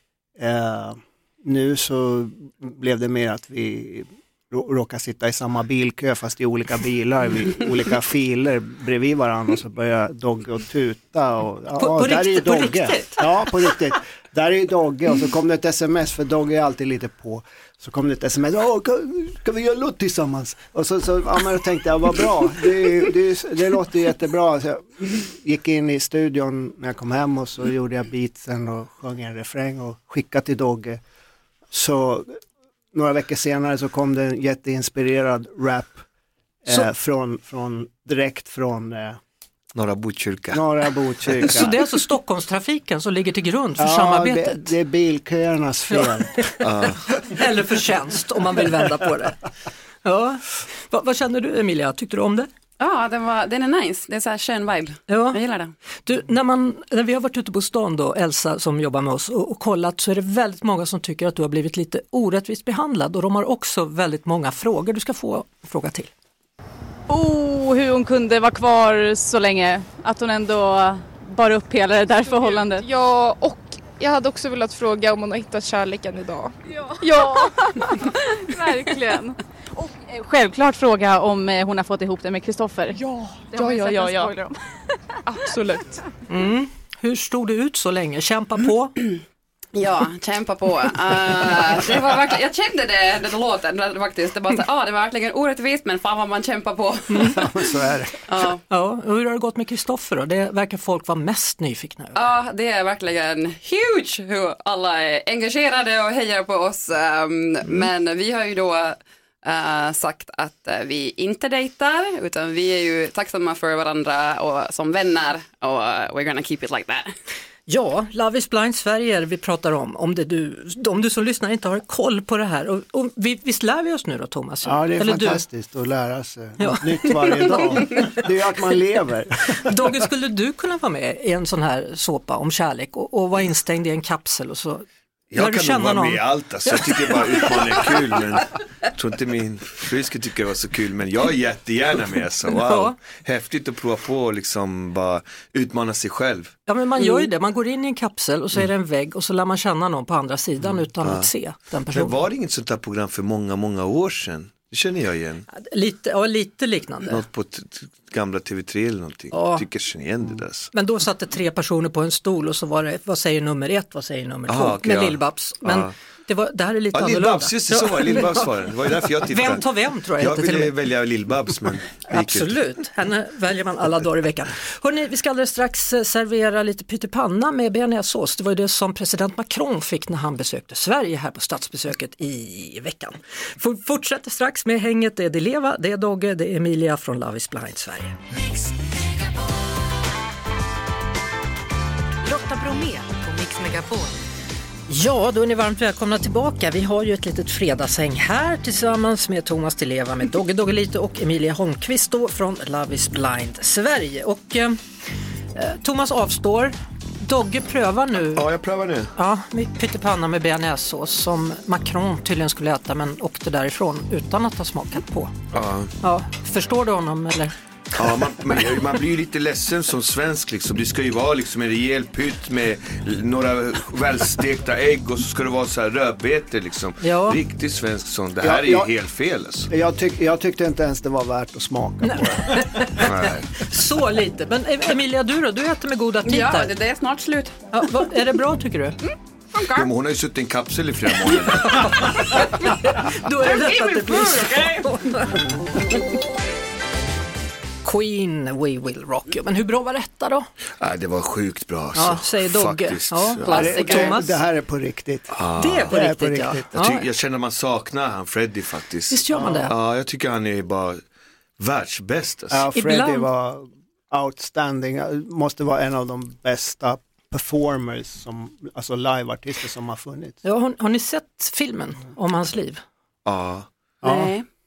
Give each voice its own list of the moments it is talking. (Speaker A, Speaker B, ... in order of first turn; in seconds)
Speaker A: 0.4-31.0, 31.7-32.4, 32.9-36.0, 36.6-39.2, 40.5-41.7, 43.8-46.5, 97.3-98.2, 124.7-129.6, 228.4-228.9, 229.7-232.8, 253.5-255.4, 255.9-256.7, 262.5-270.4, 274.0-274.4
Speaker B: 11.8-13.3, 41.5-44.7, 45.9-49.4, 50.0-52.5, 55.1-55.4, 56.1-66.1, 86.3-89.0, 97.1-97.4, 98.7-102.2, 117.7-125.4, 126.6-128.1, 129.6-134.8, 135.4-137.8, 142.7-143.0, 146.7-152.2, 155.5-157.2, 159.3-159.7, 160.7-168.4, 169.3-170.7, 172.1-188.2, 194.9-204.8, 205.6-208.5, 209.2-215.3, 216.0-217.6, 227.0-227.4, 232.0-236.7, 237.7-239.0, 241.6-245.4, 247.8-250.5, 251.9-254.4, 255.6-257.1, 259.1-259.7, 262.8-263.3, 270.4-272.8
Speaker C: 39.8-40.6, 46.6-47.0, 135.3-146.6, 151.0-151.3, 151.9-155.4, 157.1-160.7, 164.5-165.9, 166.9-169.7, 170.2-172.6, 208.3-209.1, 215.5-215.9, 218.0-229.7, 233.0-233.5, 239.7-242.2, 250.8-253.8, 255.3-255.9, 256.7-261.0, 261.6-262.6, 273.3-273.7
Speaker D: 52.8-55.7, 89.8-97.6, 98.3-98.6, 102.2-117.1, 236.3-237.6, 239.6-239.9, 243.4-244.9, 253.4-254.2, 274.0-274.4
Speaker E: 67.1-72.8, 78.5-79.3, 79.9-83.0, 83.5-84.5
Speaker F: 72.2-78.8, 82.9-84.4, 85.3-86.0
Speaker G: 192.2-194.2